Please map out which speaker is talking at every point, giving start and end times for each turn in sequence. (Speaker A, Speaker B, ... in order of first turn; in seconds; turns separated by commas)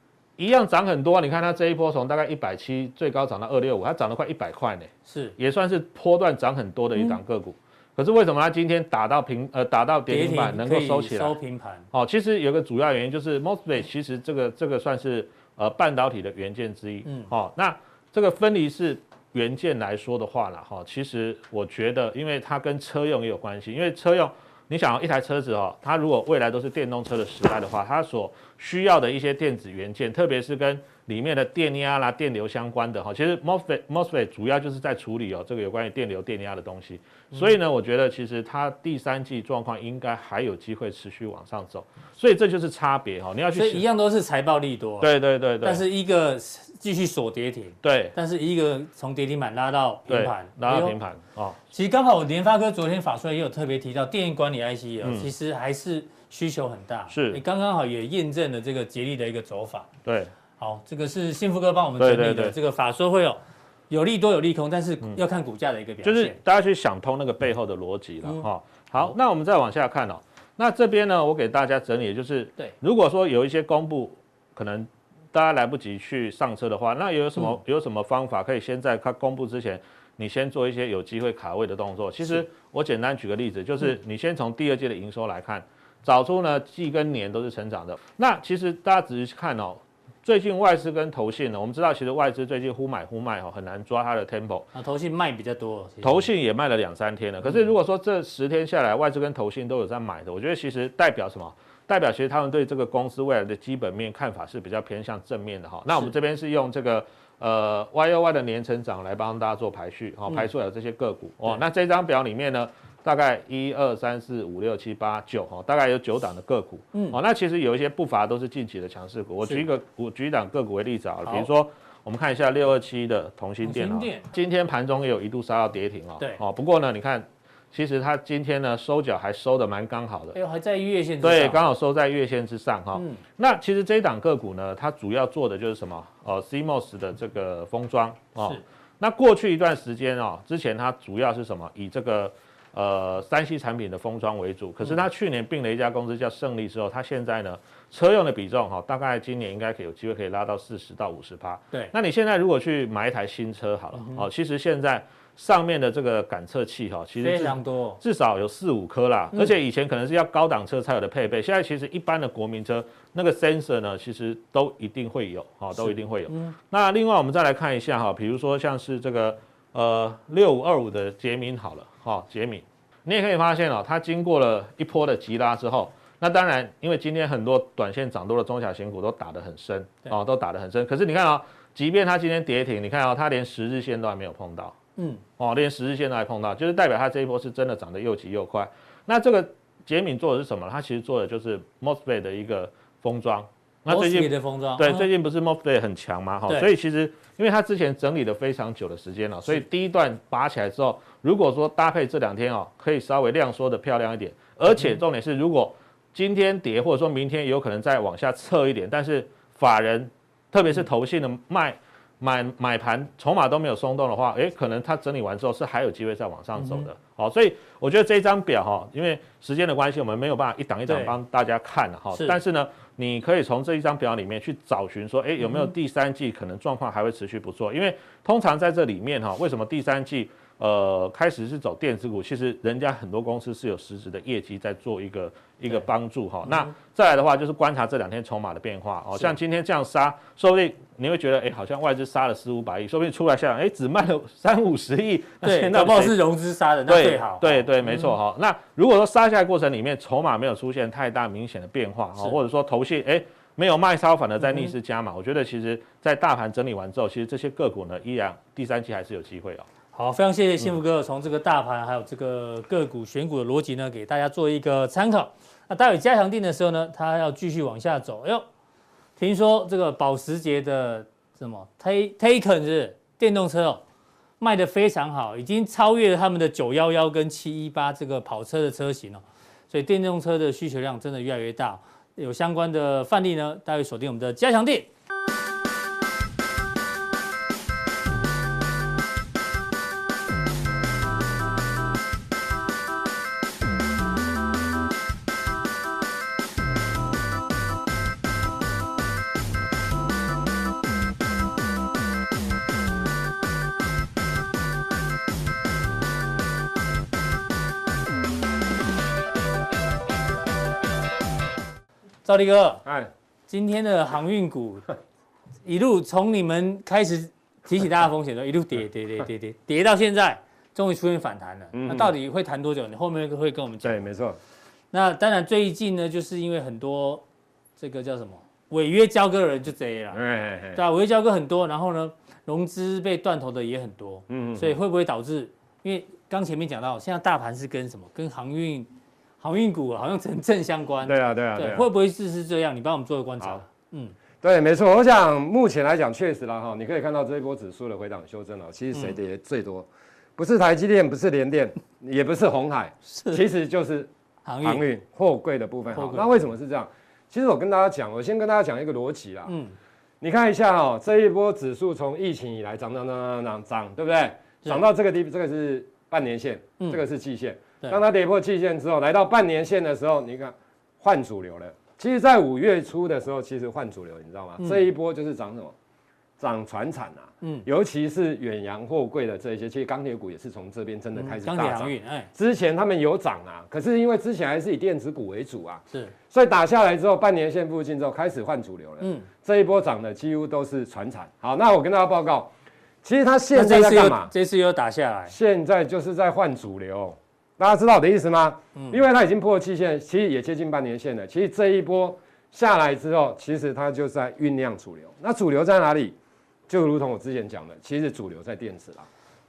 Speaker A: 0.4-11.4, Speaker B: 5.1-5.3, Speaker B: 10.1-11.9, Speaker A: 11.9-43.9, Speaker B: 17.1-17.3, Speaker B: 43.5-45.1, Speaker A: 45.0-45.8, Speaker B: 45.6-51.0, Speaker A: 47.8-48.1, Speaker A: 50.1-51.6, Speaker B: 51.7-59.9, Speaker A: 55.0-55.3, Speaker A: 57.1-57.4, Speaker A: 60.0-60.3, Speaker B: 60.6-66.4, Speaker A: 62.0-62.5, Speaker A: 66.0-94.7, Speaker B: 94.8-96.3, Speaker A: 96.0-130.4, Speaker B: 123.6-124.3, Speaker B: 130.3-131.6, Speaker A: 131.2-184.8, Speaker B: 132.9-133.2, Speaker B: 154.0-154.2, Speaker B: 157.2-158.0, Speaker B: 165.8-166.6, Speaker B: 185.0-185.2, Speaker A: 185.4-246.2, Speaker B: 193.9-195.1, Speaker B: 216.6-216.9, Speaker B: 220.9-221.2, Speaker B: 245.4-248.1, Speaker A: 246.9-259.7, Speaker B: 259.9-268.5, Speaker B: 269.2-273.8, Speaker B: 274.4-284.9, Speaker B: 312.2-312.9, Speaker C: 312.9-313.1, Speaker B: 313.5-314.9, Speaker B: 315.6-324.1, Speaker C: 321.7-322.1, Speaker C: 323.8-324.4, Speaker B: 324.9-327.2, Speaker B: 327.8-330.2, Speaker C: 330.1-330.8, Speaker B: 330.8-338.9, Speaker C: 334.3-334.7, Speaker B: 339.4-344.1, Speaker C: 341.1-341.9, Speaker C: 344.4-354.1, Speaker B: 353.1-353.4, Speaker B: 354.5-354.8, Speaker C: 354.6-359.5, Speaker B: 355.9-356.3, Speaker B: 359.5-359.7, Speaker C: 360.2-375.7, Speaker B: 374.6-374.9, Speaker C: 376.4-392.5, Speaker B: 377.4-377.7, Speaker B: 381.2-382.3, Speaker B: 389.0-389.3, Speaker C: 393.0-394.3, Speaker B: 393.5-395.4, Speaker C: 395.3-406.1, Speaker C: 406.7-409.1